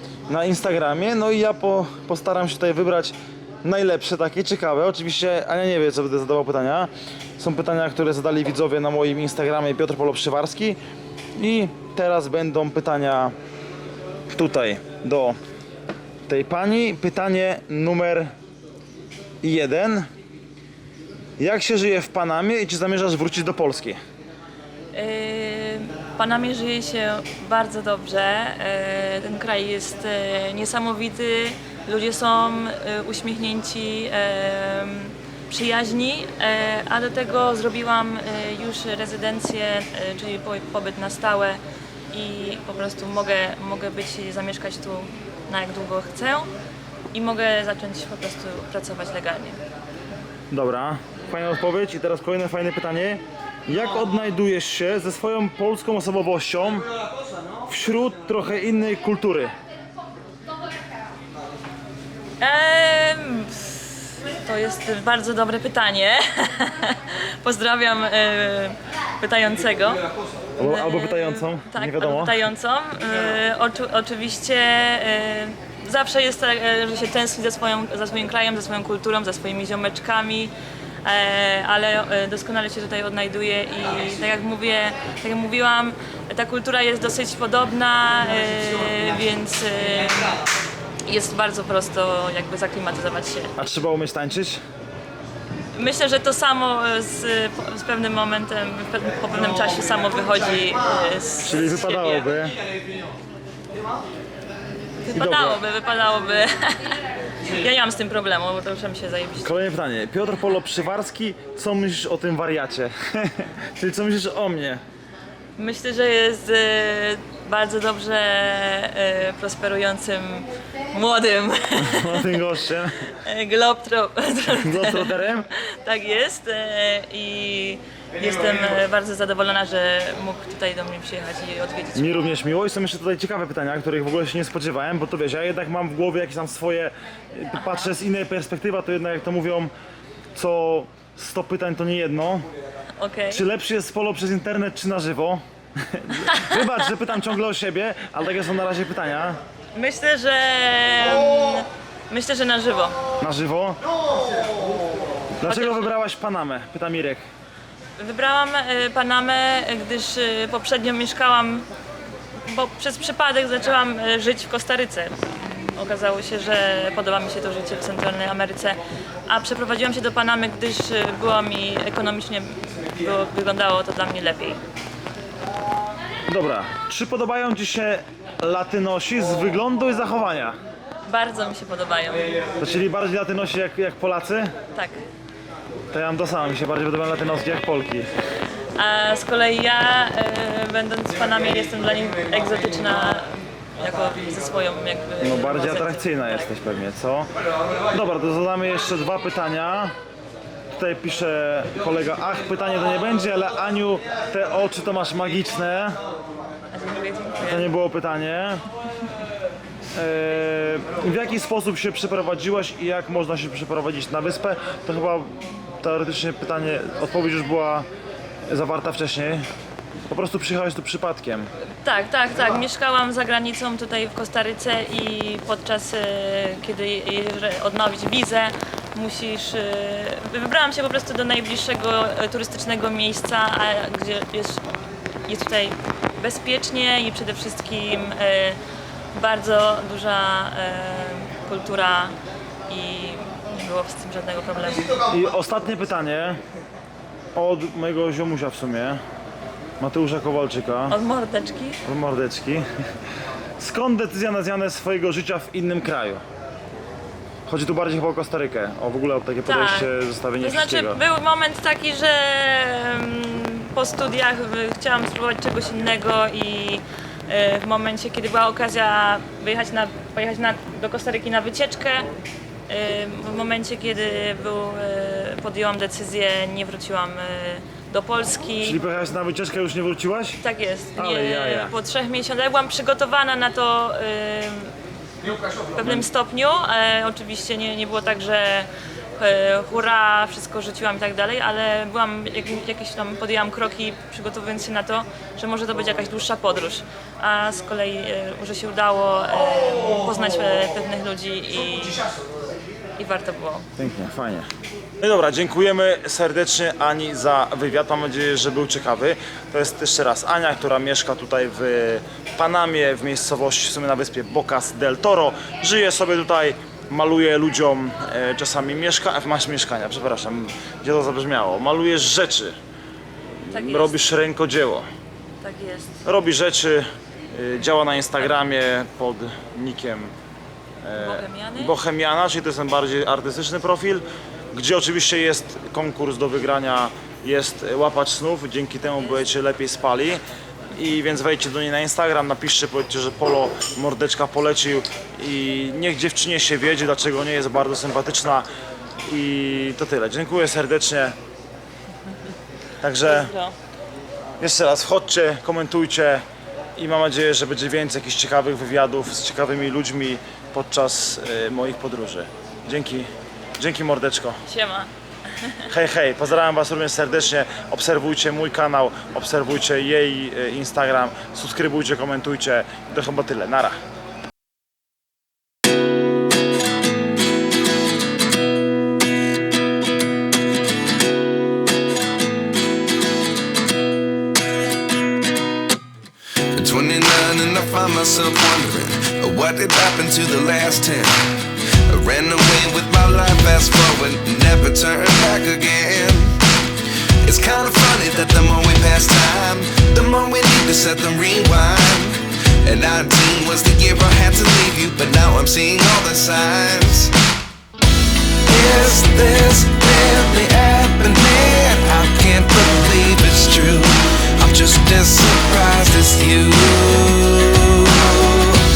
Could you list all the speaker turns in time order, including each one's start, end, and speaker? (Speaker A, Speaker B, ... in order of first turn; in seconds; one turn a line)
Speaker A: 0.3-10.8
Speaker A: 11.3-13.3
Speaker A: 14.3-15.4
Speaker A: 16.3-18.3
Speaker A: 19.4-20.1
Speaker A: 21.4-24.0
Speaker B: 24.9-46.5
Speaker B: 47.1-49.6
Speaker A: 50.5-56.9
Speaker A: 57.7-59.5
Speaker B: 62.4-70.0
Speaker A: 70.6-72.4
Speaker B: 70.6-80.5
Speaker B: 81.0-90.4
Speaker B: 91.1-93.5
Speaker A: 93.6-94.6
Speaker B: 95.7-102.4
Speaker A: 101.4-102.5
Speaker B: 105.0-109.5
Speaker A: 105.1-105.6
Speaker A: 109.4-114.8
Speaker B: 115.6-122.5
Speaker A: 121.8-123.0
Speaker B: 123.1-132.4
Speaker A: 124.5-125.5
Speaker A: 131.9-139.7
Speaker B: 137.6-137.9
Speaker A: 140.3-142.5
Speaker B: 143.0-143.4
Speaker A: 143.3-149.4
Speaker B: 146.2-146.6
Speaker B: 149.7-153.0
Speaker A: 153.2-153.8
Speaker A: 155.4-157.2
Speaker B: 155.4-155.9
Speaker B: 158.0-161.7
Speaker B: 162.4-165.2
Speaker B: 165.7-174.6
Speaker A: 176.3-180.6
Speaker B: 181.1-182.5
Speaker A: 182.6-184.5
Speaker B: 184.7-185.0
Speaker A: 185.9-188.1
Speaker B: 188.8-196.5
Speaker A: 195.2-197.3
Speaker A: 197.9-199.9
Speaker A: 200.7-205.9
Speaker B: 206.7-207.7
Speaker A: 207.4-208.6
Speaker A: 209.9-217.9
Speaker A: 218.5-219.4
Speaker A: 220.1-221.5
Speaker B: 221.8-234.6
Speaker B: 235.3-238.6
Speaker B: 239.1-242.1
Speaker B: 242.7-244.9
Speaker A: 245.1-246.4
Speaker A: 247.3-249.0
Speaker A: 249.8-251.0
Speaker B: 250.9-251.8
Speaker A: 251.8-252.7
Speaker A: 253.6-256.2
Speaker A: 257.5-261.0
Speaker B: 259.4-272.1
Speaker B: 272.7-278.8
Speaker A: 278.6-280.4
Speaker B: 280.4-284.7
Speaker A: 280.9-281.7
Speaker B: 285.7-302.1
Speaker B: 303.0-303.6
Speaker A: 303.8-304.5
Speaker A: 305.0-322.6
Speaker A: 323.4-324.9
Speaker B: 323.5-324.0
Speaker B: 325.4-326.0
Speaker A: 326.0-330.1
Speaker A: 330.8-340.2
Speaker B: 330.9-331.8
Speaker A: 340.7-348.5
Speaker A: 349.0-351.1
Speaker A: 352.8-353.3
Speaker B: 353.0-353.6
Speaker A: 354.4-356.2
Speaker A: 356.8-364.4
Speaker B: 364.5-365.7
Speaker A: 365.7-373.8
Speaker C: 386.5-396.4
Speaker C: 397.2-407.1
Speaker C: 408.5-418.6